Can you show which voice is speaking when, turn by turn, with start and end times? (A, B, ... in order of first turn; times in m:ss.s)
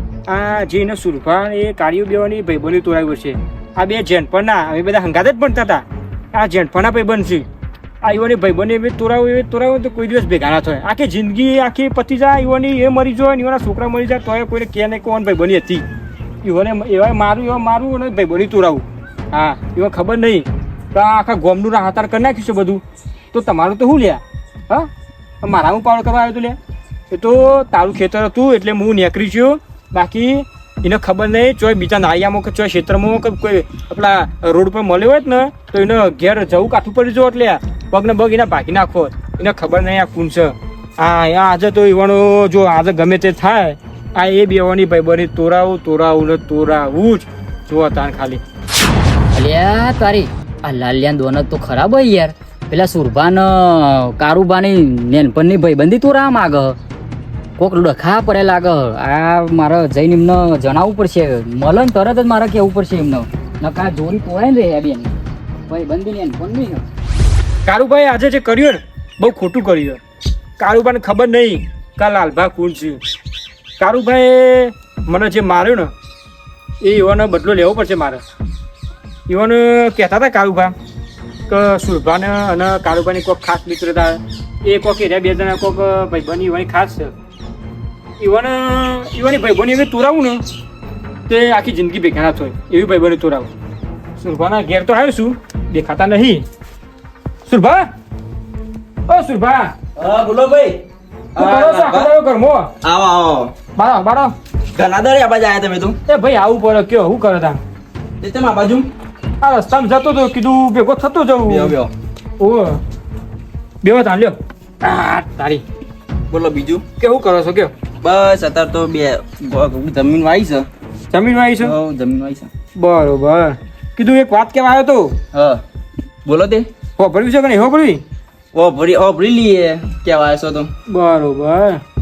0:00.3-0:07.4 A
0:08.0-0:15.8 A
0:16.4-0:22.8 A
0:23.3-0:24.9 A
0:25.4-0:26.6 A
0:27.1-0:48.4 A
0:49.3-0:56.8 B
0:57.6-1:05.2 B
1:05.7-1:06.8 B
1:07.7-1:10.0 A
1:10.6-1:13.0 A
1:13.8-1:15.9 A
1:16.8-1:18.2 A
1:19.3-1:20.7 A
1:21.5-1:27.1 A
1:28.2-1:30.4 A
1:31.3-1:33.5 A
1:34.2-1:36.4 A
1:37.5-1:37.9 A
1:39.1-1:39.7 A
1:40.0-1:40.8 C
1:41.4-1:42.1 C
1:41.4-1:42.7 A
1:42.8-1:43.6 C
1:43.8-1:44.3 A
1:44.8-1:46.0 C
1:46.1-1:47.6 A
1:48.2-1:48.9 C
1:49.4-1:51.8 A
1:51.5-1:51.9 C
1:52.4-1:52.8 A
1:53.8-1:55.6 A
1:56.3-1:56.8 C
1:57.0-1:57.7 A
1:58.0-2:00.7 C
2:01.1-2:01.8 A
2:01.6-2:02.5 C
2:02.8-2:05.2 A
2:05.3-2:05.6 C
2:06.3-2:06.7 C
2:07.0-2:08.0 A
2:08.5-2:10.7 C
2:10.9-2:11.8 A